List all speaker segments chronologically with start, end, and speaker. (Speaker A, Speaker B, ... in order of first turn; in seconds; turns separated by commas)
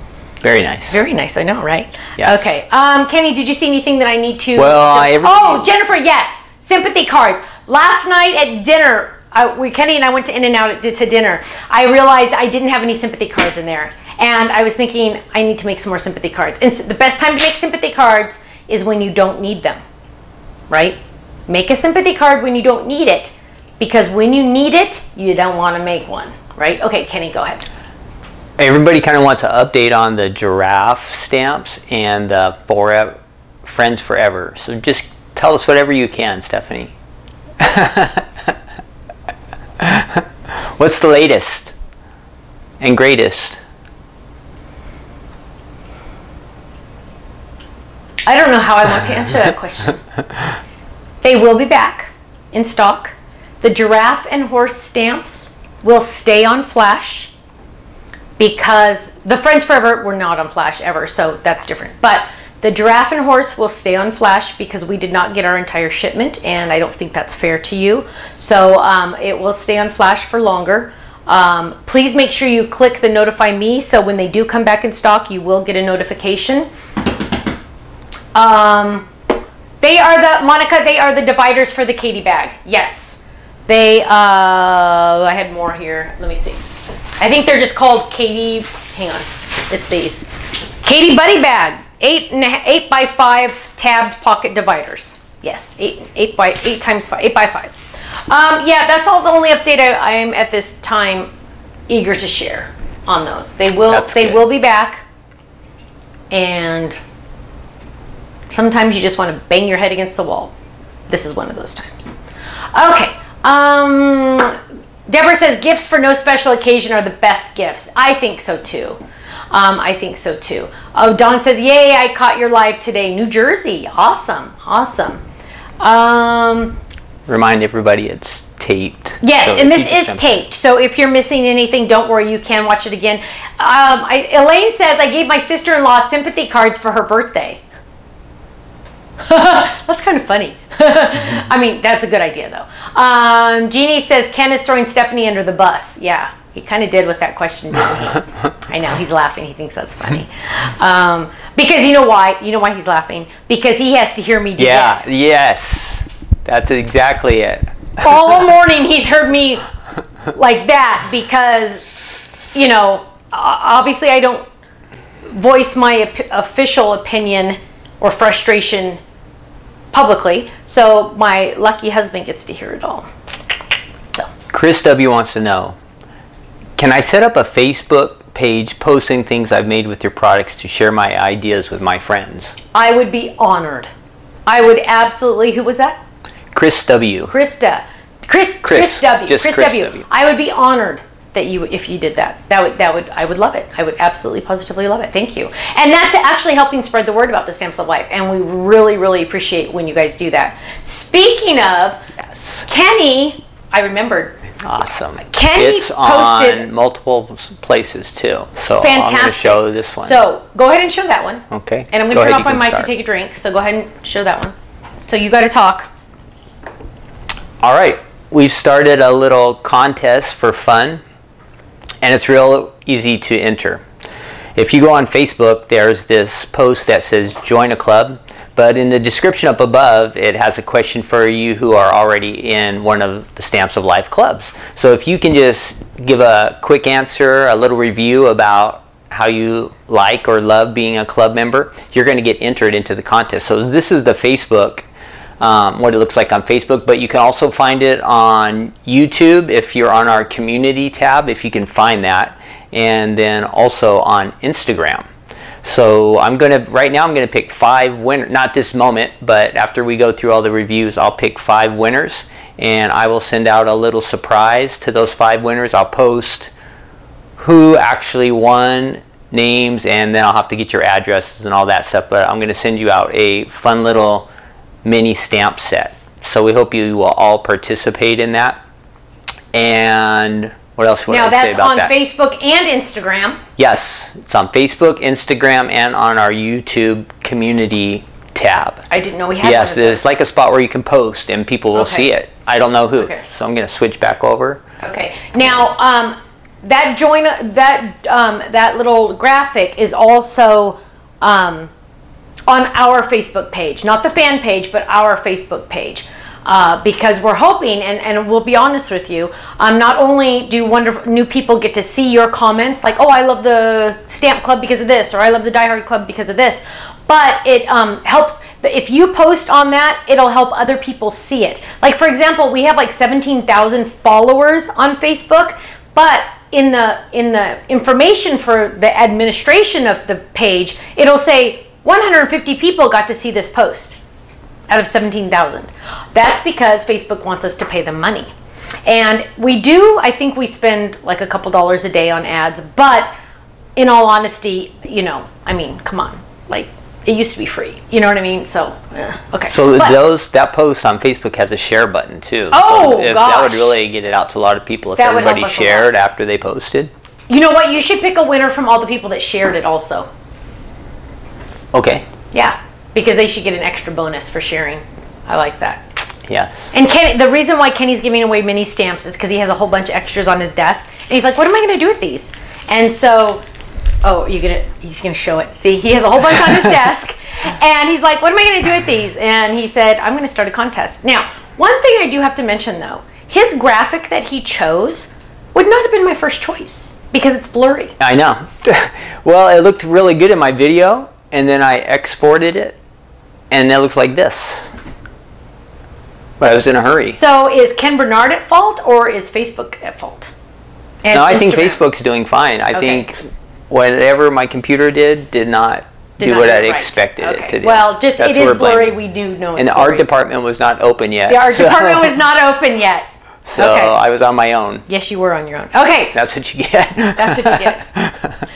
Speaker A: 0.4-1.0, Speaker B: 0.9-19.8, Speaker A: 2.2-2.5, Speaker A: 4.6-5.7, Speaker B: 20.7-21.0, Speaker B: 21.5-27.7, Speaker A: 28.6-36.9, Speaker A: 37.6-38.5, Speaker A: 39.8-41.7, Speaker A: 42.8-43.6, Speaker B: 48.3-50.0, Speaker B: 51.2-57.3, Speaker B: 58.4-76.7, Speaker B: 78.3-79.1, Speaker B: 79.8-86.6, Speaker B: 87.2-90.3, Speaker B: 90.8-101.3, Speaker B: 101.9-105.0, Speaker A: 103.9-104.4, Speaker B: 106.3-107.0, Speaker B: 108.5-110.5, Speaker B: 111.1-112.1, Speaker B: 112.7-119.0, Speaker B: 119.5-125.2, Speaker B: 125.8-126.8, Speaker A: 127.3-130.4, Speaker B: 129.2-137.6, Speaker B: 139.2-155.1, Speaker A: 154.6-157.7, Speaker B: 158.0-159.6, Speaker B: 160.3-161.8, Speaker B: 162.5-164.4, Speaker B: 165.3-169.0, Speaker B: 169.9-173.1, Speaker A: 174.5-175.8, Speaker A: 176.8-182.6, Speaker B: 182.7-183.9, Speaker B: 184.5-186.0, Speaker A: 186.5-187.3, Speaker B: 187.3-202.0, Speaker A: 188.6-190.1, Speaker A: 202.3-202.6, Speaker B: 202.7-204.4, Speaker A: 204.6-210.2, Speaker B: 205.3-206.7, Speaker B: 208.8-214.5, Speaker A: 211.5-212.9, Speaker B: 215.1-215.9, Speaker A: 217.6-221.0, Speaker A: 222.0-223.8, Speaker A: 224.6-244.9, Speaker A: 245.4-255.1, Speaker A: 255.6-266.5, Speaker A: 267.4-274.3, Speaker A: 274.8-278.6, Speaker A: 279.5-281.9, Speaker B: 281.1-283.4, Speaker A: 283.6-288.9, Speaker B: 288.9-290.1, Speaker A: 289.4-294.6, Speaker B: 291.7-292.1, Speaker B: 293.0-293.2, Speaker B: 294.8-301.7, Speaker B: 302.5-334.0, Speaker B: 334.7-338.3, Speaker B: 338.9-343.1, Speaker B: 343.8-350.0, Speaker A: 349.5-356.9, Speaker B: 352.5-353.7, Speaker B: 355.0-355.9, Speaker B: 357.3-360.1, Speaker A: 361.7-362.1, Speaker B: 362.3-365.8, Speaker A: 366.3-366.8, Speaker B: 366.7-373.4, Speaker B: 374.0-387.9, Speaker A: 388.0-392.8, Speaker A: 393.5-394.7, Speaker A: 396.4-397.2, Speaker B: 397.1-400.3, Speaker B: 401.0-401.8, Speaker A: 401.1-409.0, Speaker B: 402.7-403.1, Speaker B: 406.2-410.1, Speaker A: 409.6-412.2, Speaker B: 411.3-413.9, Speaker A: 413.5-414.9, Speaker B: 414.9-416.2, Speaker A: 416.1-418.4, Speaker B: 417.1-417.8